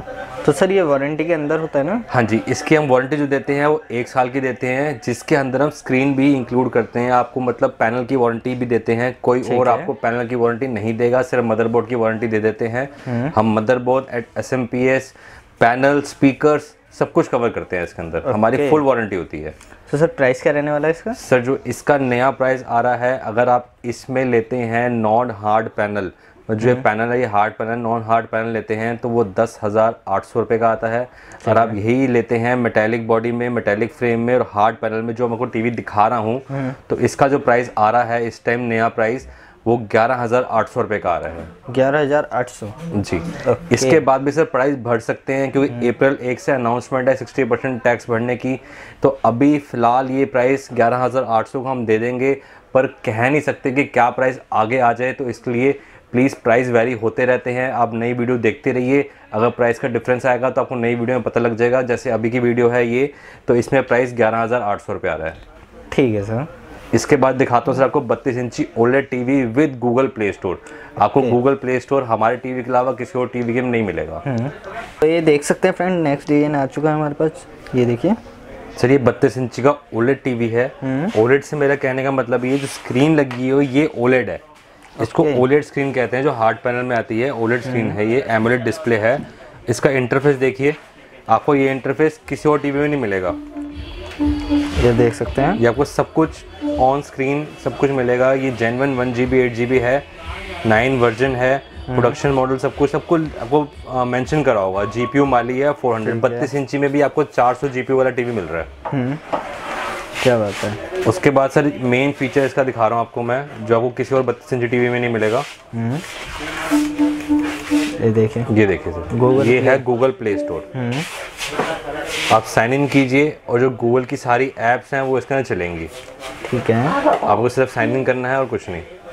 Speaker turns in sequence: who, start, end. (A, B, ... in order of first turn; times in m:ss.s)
0:00.4-0:02.0 A
0:02.1-0:19.5 B
0:09.4-0:09.9 A
0:13.0-0:13.3 A
0:18.2-0:18.8 A
0:19.9-0:21.2 A
0:21.2-0:41.5 B
0:31.4-0:31.8 A
0:36.5-0:36.8 A
0:41.7-0:42.7 A
0:42.9-1:05.4 B
0:43.4-0:44.0 A
1:05.9-1:06.5 A
1:06.9-1:14.2 B
1:14.2-1:18.2 A
1:18.8-1:24.4 B
1:20.8-1:21.1 A
1:25.0-1:25.4 A
1:25.0-1:33.4 B
1:27.6-1:28.0 A
1:34.8-1:35.6 A
1:35.6-1:40.0 B
1:40.6-1:48.7 B
1:41.9-1:42.2 A
1:46.0-1:46.5 A
1:48.9-1:49.2 A
1:50.2-1:50.8 A
1:51.0-1:55.5 B
1:55.7-1:56.0 A
1:58.0-1:58.5 A
1:58.5-2:00.7 B
1:59.1-1:59.8 A
2:00.7-2:01.1 A
2:02.3-2:05.9 B
2:06.4-2:07.0 A
2:07.2-2:08.8 B